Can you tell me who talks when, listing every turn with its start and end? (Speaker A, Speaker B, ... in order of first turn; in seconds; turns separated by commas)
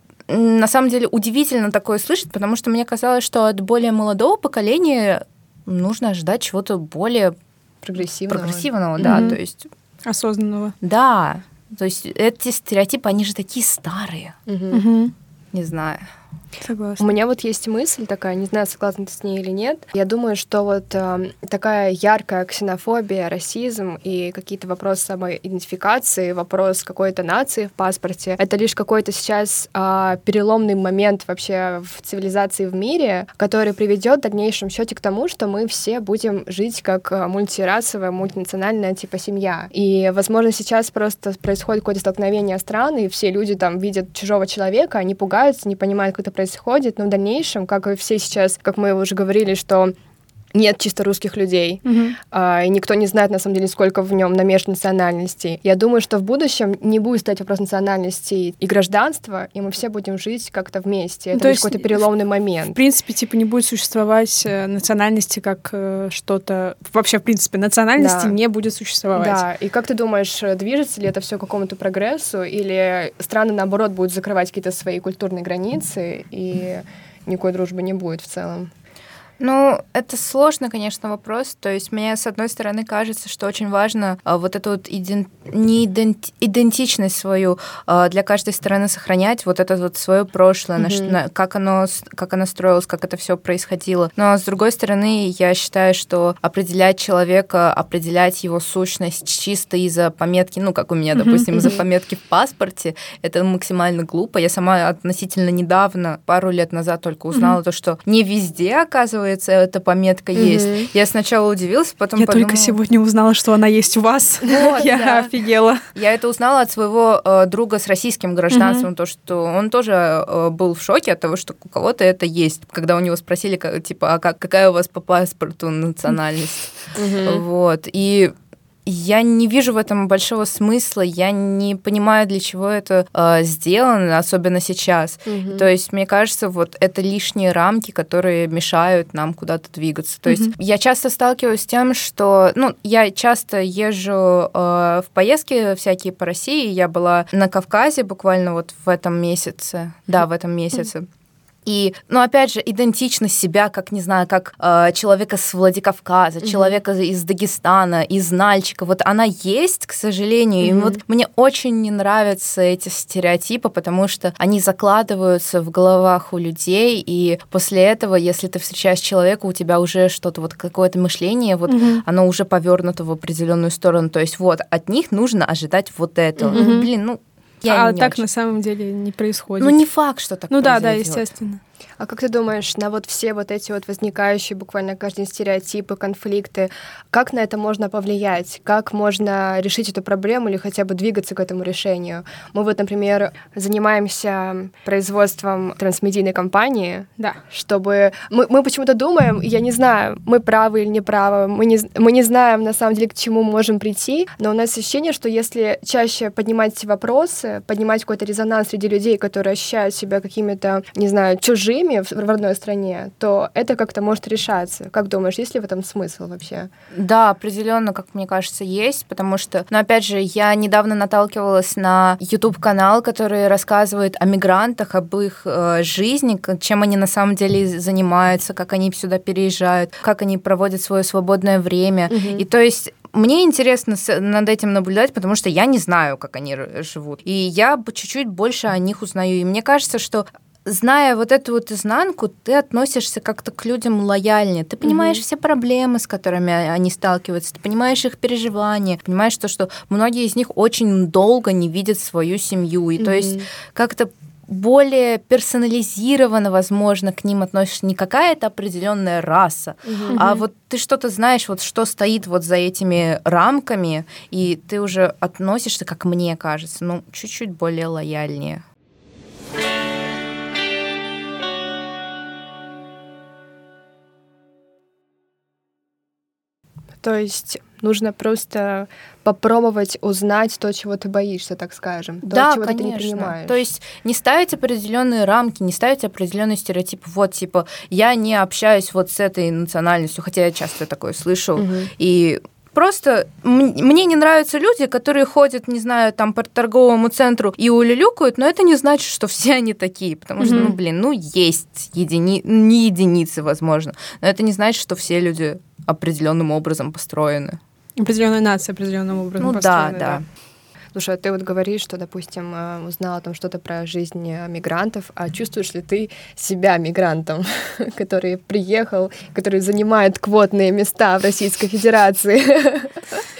Speaker A: 0.3-7.3, Speaker B: 7.8-9.3, Speaker A: 8.3-9.7, Speaker C: 9.0-9.4, Speaker C: 10.0-10.7, Speaker A: 10.8-14.3, Speaker B: 14.5-14.8, Speaker C: 14.7-15.1, Speaker A: 15.5-16.0, Speaker C: 16.6-17.0, Speaker B: 17.0-49.9, Speaker B: 50.5-62.8, Speaker C: 51.8-52.1, Speaker C: 61.3-62.0, Speaker C: 62.7-69.4, Speaker B: 68.0-68.3, Speaker B: 69.1-78.7, Speaker A: 79.4-112.8, Speaker B: 90.8-91.2, Speaker C: 101.1-101.7, Speaker C: 107.3-107.6, Speaker B: 110.3-110.9, Speaker C: 112.2-115.8, Speaker A: 114.4-115.3, Speaker A: 115.9-128.3, Speaker C: 118.5-118.9, Speaker B: 127.0-127.4, Speaker A: 128.8-151.1, Speaker B: 135.2-135.7, Speaker C: 140.2-140.5, Speaker A: 151.6-178.2, Speaker B: 160.6-161.0, Speaker C: 171.7-172.0, Speaker B: 176.4-176.7, Speaker C: 176.5-176.9, Speaker C: 177.7-179.8, Speaker A: 179.6-181.3, Speaker C: 180.5-181.6, Speaker B: 182.0-216.7, Speaker A: 216.9-268.6, Speaker B: 232.1-232.4, Speaker B: 244.8-245.2, Speaker B: 253.0-253.5, Speaker B: 259.8-260.3, Speaker C: 260.1-260.4, Speaker B: 277.0-283.6, Speaker A: 282.2-307.6, Speaker B: 291.6-291.9, Speaker C: 300.4-300.7, Speaker C: 308.0-310.2, Speaker A: 309.4-310.2, Speaker B: 310.9-323.2